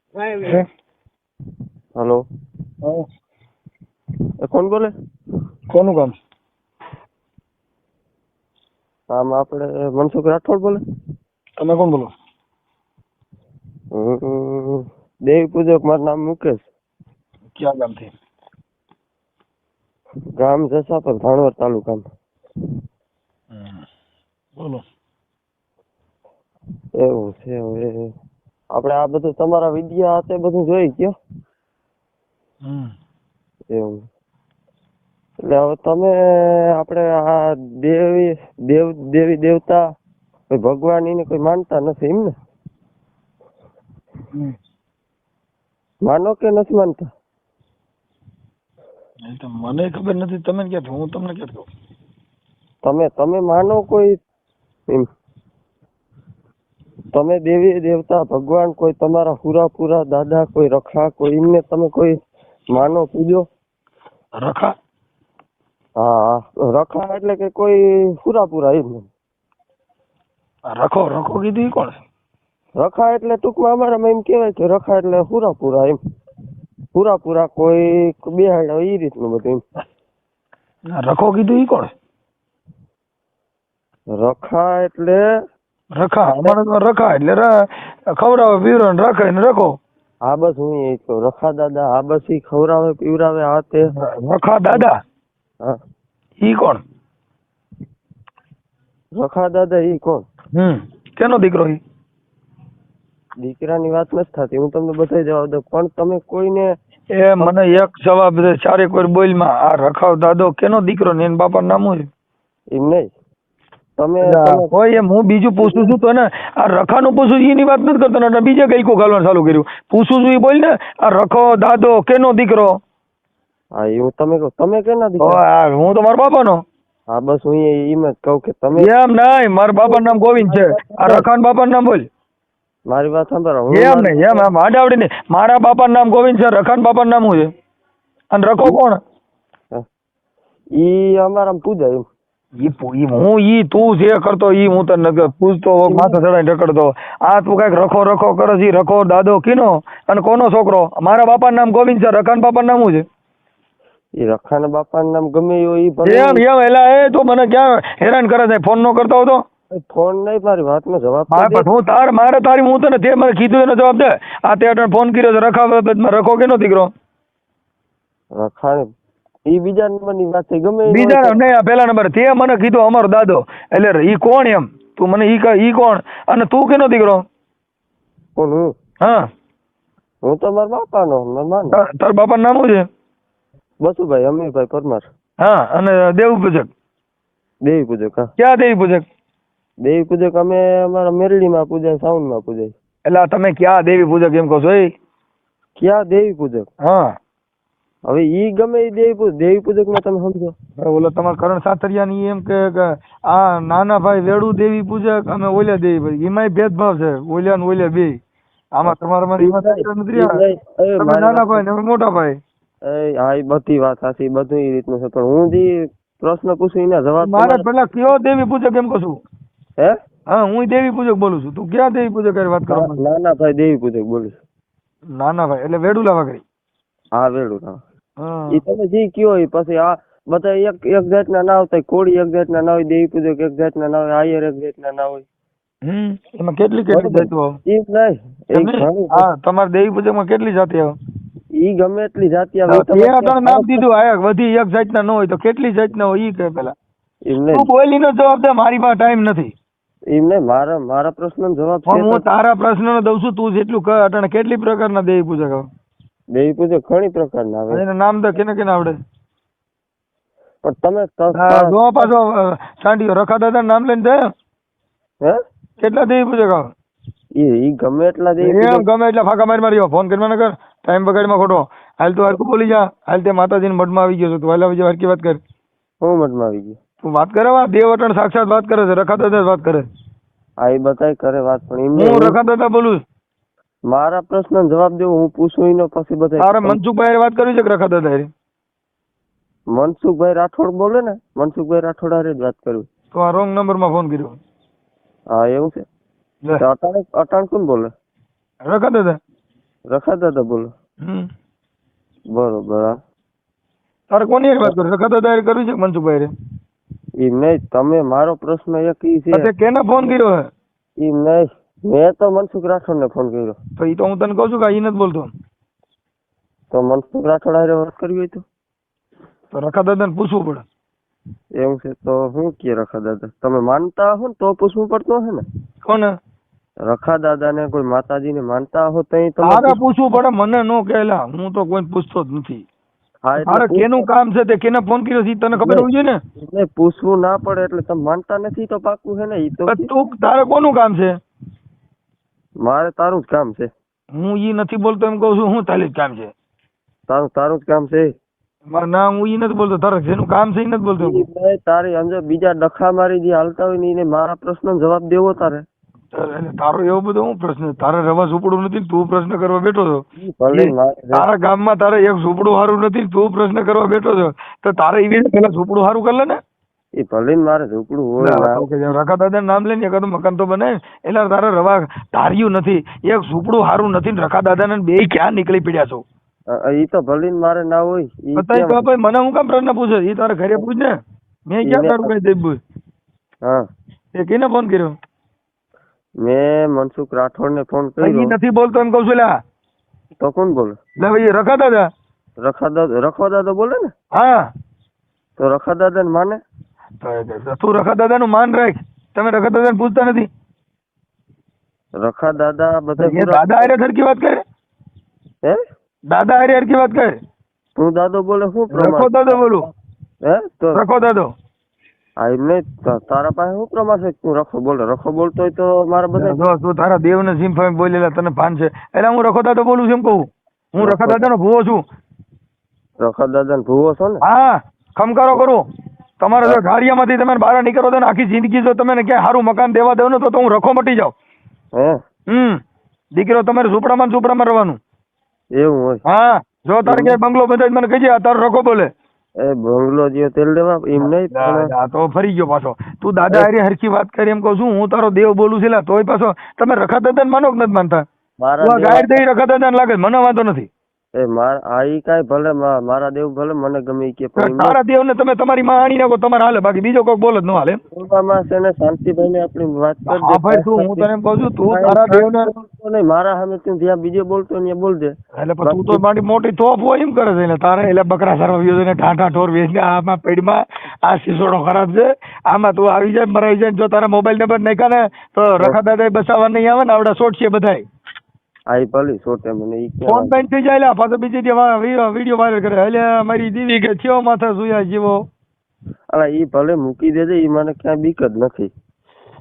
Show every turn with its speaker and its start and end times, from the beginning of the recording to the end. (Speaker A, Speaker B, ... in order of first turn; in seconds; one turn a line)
Speaker A: 0.4-0.6
Speaker B: 2.0-2.2
Speaker B: 4.5-4.9
Speaker A: 5.7-6.2
Speaker B: 9.1-10.8
Speaker A: 11.6-12.1
Speaker B: 13.9-16.7
Speaker A: 17.6-18.1
Speaker B: 20.4-22.1
Speaker A: 23.5-23.8
Speaker A: 24.6-24.8
Speaker B: 26.9-28.1
Speaker B: 28.7-31.1
Speaker A: 32.6-32.9
Speaker B: 33.7-34.0
Speaker B: 35.4-39.8
Speaker B: 40.5-42.4
Speaker B: 46.0-47.1
Speaker A: 49.2-51.7
Speaker B: 52.8-54.1
Speaker B: 57.1-62.2
Speaker B: 62.7-63.5
Speaker A: 64.4-64.7
Speaker B: 66.0-69.1
Speaker A: 70.7-72.0
Speaker B: 72.8-76.0
Speaker B: 76.9-79.6
Speaker A: 80.9-81.9
Speaker B: 84.2-85.3
Speaker A: 85.9-89.8
Speaker B: 86.3-86.6
Speaker B: 90.2-93.9
Speaker A: 93.9-95.0
Speaker A: 96.4-96.8
Speaker B: 99.2-100.2
Speaker A: 100.5-101.8
Speaker B: 103.4-106.7
Speaker A: 107.1-112.1
Speaker B: 112.7-113.1
Speaker B: 114.0-114.7
Speaker A: 114.2-122.8
Speaker B: 115.6-116.0
Speaker B: 123.8-125.4
Speaker A: 125.2-126.6
Speaker B: 127.1-128.9
Speaker A: 128.8-132.1
Speaker B: 129.8-131.3
Speaker B: 132.9-134.5
Speaker A: 133.7-137.5
Speaker A: 138.3-139.0
Speaker B: 140.8-142.0
Speaker A: 142.6-153.1
Speaker B: 145.9-146.2
Speaker B: 154.2-156.4
Speaker A: 156.0-159.4
Speaker B: 159.7-161.7
Speaker A: 161.3-166.9
Speaker B: 168.3-168.9
Speaker B: 169.5-171.4
Speaker A: 170.9-177.2
Speaker B: 178.4-178.7
Speaker A: 179.0-179.3
Speaker B: 180.2-181.8
Speaker A: 181.7-182.8
Speaker B: 183.8-185.1
Speaker A: 185.4-186.7
Speaker B: 187.6-188.3
Speaker A: 188.4-189.0
Speaker B: 189.8-192.7
Speaker A: 193.1-194.9
Speaker B: 195.8-196.7
Speaker A: 196.8-197.2
Speaker B: 198.1-200.6
Speaker A: 200.8-208.2
Speaker A: 208.7-210.4
Speaker B: 208.8-211.6
Speaker A: 211.0-212.4
Speaker B: 212.9-217.7
Speaker A: 217.2-219.2
Speaker A: 220.3-223.0
Speaker B: 222.7-224.4
Speaker A: 225.2-226.4
Speaker B: 227.2-227.8
Speaker A: 228.2-228.6
Speaker B: 228.5-235.2
Speaker A: 235.8-237.5
Speaker B: 236.9-239.2
Speaker A: 238.6-240.9
Speaker B: 241.6-243.8
Speaker A: 242.7-246.7
Speaker B: 247.2-247.7
Speaker A: 247.5-249.5
Speaker B: 250.1-252.2
Speaker A: 251.9-255.7
Speaker B: 256.3-257.8
Speaker A: 257.7-259.0
Speaker B: 260.6-262.1
Speaker A: 261.3-264.2
Speaker A: 265.8-266.7
Speaker B: 267.4-268.9
Speaker A: 268.4-275.4
Speaker B: 276.0-276.8
Speaker A: 277.0-279.9
Speaker B: 280.6-282.4
Speaker A: 282.0-283.0
Speaker B: 283.9-286.8
Speaker A: 286.4-288.3
Speaker B: 289.7-292.9
Speaker A: 293.1-294.4
Speaker B: 295.3-295.8
Speaker B: 296.6-297.9
Speaker A: 298.6-299.2
Speaker B: 299.9-300.7
Speaker B: 302.3-303.0
Speaker A: 304.1-306.3
Speaker B: 307.2-309.5
Speaker A: 309.3-310.4
Speaker B: 311.0-313.6
Speaker A: 313.8-315.3
Speaker B: 316.7-318.4
Speaker A: 319.5-320.6
Speaker B: 321.6-325.4
Speaker A: 325.9-326.1
Speaker B: 326.8-329.8
Speaker A: 329.4-332.6
Speaker B: 333.2-334.1
Speaker A: 333.4-336.2
Speaker B: 335.6-335.9
Speaker B: 336.4-339.9
Speaker A: 339.7-341.2
Speaker B: 342.6-343.7
Speaker A: 344.1-346.3
Speaker B: 347.1-348.1
Speaker A: 348.7-351.2
Speaker B: 351.0-355.6
Speaker A: 356.1-366.4
Speaker B: 360.2-361.2
Speaker B: 367.0-368.7
Speaker A: 368.2-376.0
Speaker B: 376.5-378.9
Speaker A: 378.4-380.9
Speaker A: 381.5-382.6
Speaker B: 381.6-382.1
Speaker A: 384.1-385.0
Speaker B: 386.2-388.4
Speaker A: 388.0-389.3
Speaker B: 390.2-390.8
Speaker A: 391.0-391.9
Speaker B: 392.4-393.9
Speaker A: 394.1-394.5
Speaker B: 395.4-396.4
Speaker A: 397.0-400.3
Speaker B: 402.0-403.7
Speaker A: 403.0-404.4
Speaker A: 406.1-407.1
Speaker B: 407.8-409.5
Speaker A: 408.7-409.7
Speaker B: 410.2-410.8
Speaker A: 410.7-411.3
Speaker B: 412.2-416.4
Speaker A: 416.2-421.8
Speaker B: 420.8-421.3
Speaker B: 423.0-424.2
Speaker A: 424.2-425.6
Speaker A: 426.2-431.1
Speaker A: 432.3-432.6
Speaker A: 433.1-434.8
Speaker B: 435.6-436.0
Speaker A: 436.1-438.9
Speaker B: 436.9-437.2
Speaker B: 439.4-441.7
Speaker A: 441.0-448.0
Speaker B: 448.4-449.2
Speaker A: 448.6-450.7
Speaker B: 451.2-454.8
Speaker A: 454.4-457.8
Speaker B: 457.9-461.1
Speaker A: 460.1-462.5
Speaker B: 461.7-466.0
Speaker A: 465.4-477.8
Speaker B: 478.7-480.4
Speaker A: 480.1-485.2
Speaker B: 486.1-488.7